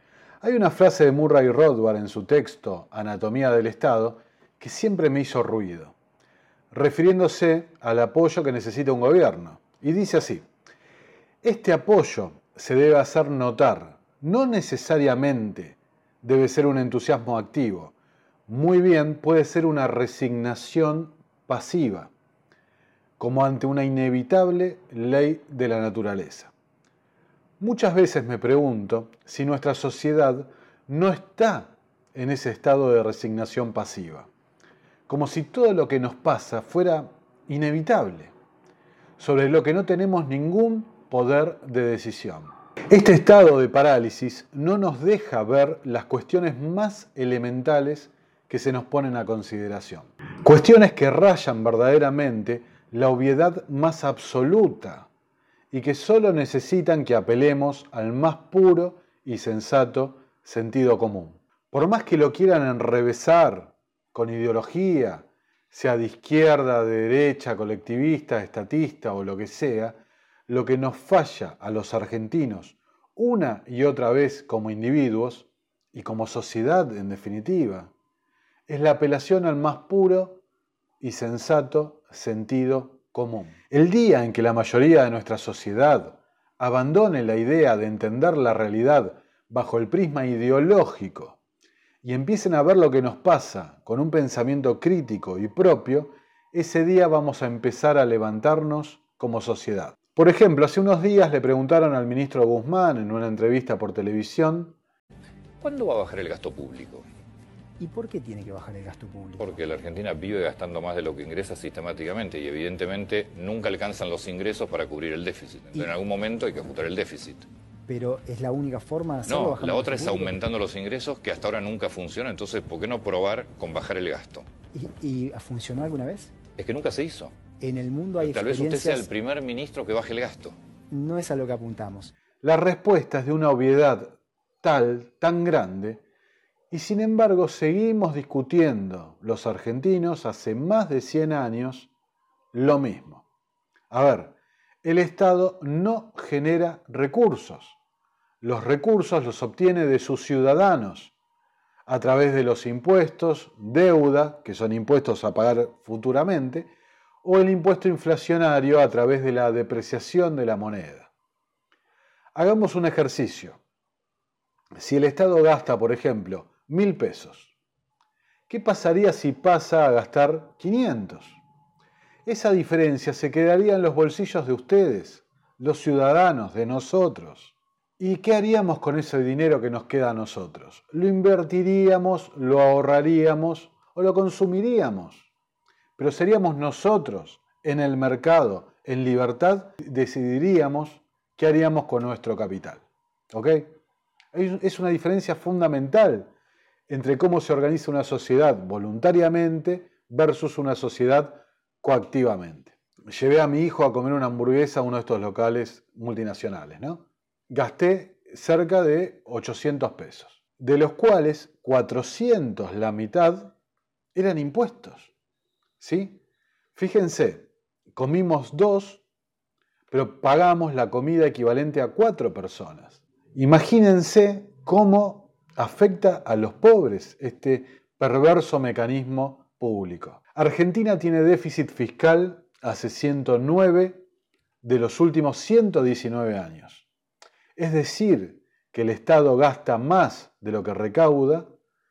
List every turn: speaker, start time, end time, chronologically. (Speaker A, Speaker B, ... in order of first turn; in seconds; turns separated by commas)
Speaker A: 0.4-6.0, Speaker A: 6.7-10.5, Speaker A: 11.4-17.9, Speaker A: 18.5-22.1, Speaker A: 23.2-26.5, Speaker A: 27.6-34.3, Speaker A: 35.1-38.3, Speaker A: 39.2-55.1, Speaker A: 55.7-70.0, Speaker A: 70.5-77.9, Speaker A: 78.7-80.4, Speaker A: 81.0-91.4, Speaker A: 92.0-104.8, Speaker B: 105.6-107.0, Speaker C: 107.8-109.6, Speaker B: 109.4-117.5, Speaker C: 117.9-120.4, Speaker B: 119.3-124.5, Speaker C: 124.7-126.3, Speaker B: 126.6-127.4, Speaker C: 127.6-129.1, Speaker B: 128.2-130.6, Speaker C: 130.9-132.1, Speaker A: 132.4-136.0, Speaker A: 136.7-141.9, Speaker A: 142.5-143.2, Speaker A: 143.9-147.8, Speaker A: 148.4-151.1, Speaker A: 151.9-156.7, Speaker A: 157.2-161.1, Speaker A: 162.3-163.6, Speaker A: 164.8-167.5, Speaker A: 168.5-171.4, Speaker A: 172.2-185.3, Speaker A: 186.0-193.8, Speaker A: 194.3-196.3, Speaker A: 196.9-213.6, Speaker A: 214.1-215.1, Speaker A: 215.8-216.2, Speaker A: 216.8-219.0, Speaker A: 219.9-234.0, Speaker A: 234.6-236.9, Speaker A: 237.6-241.5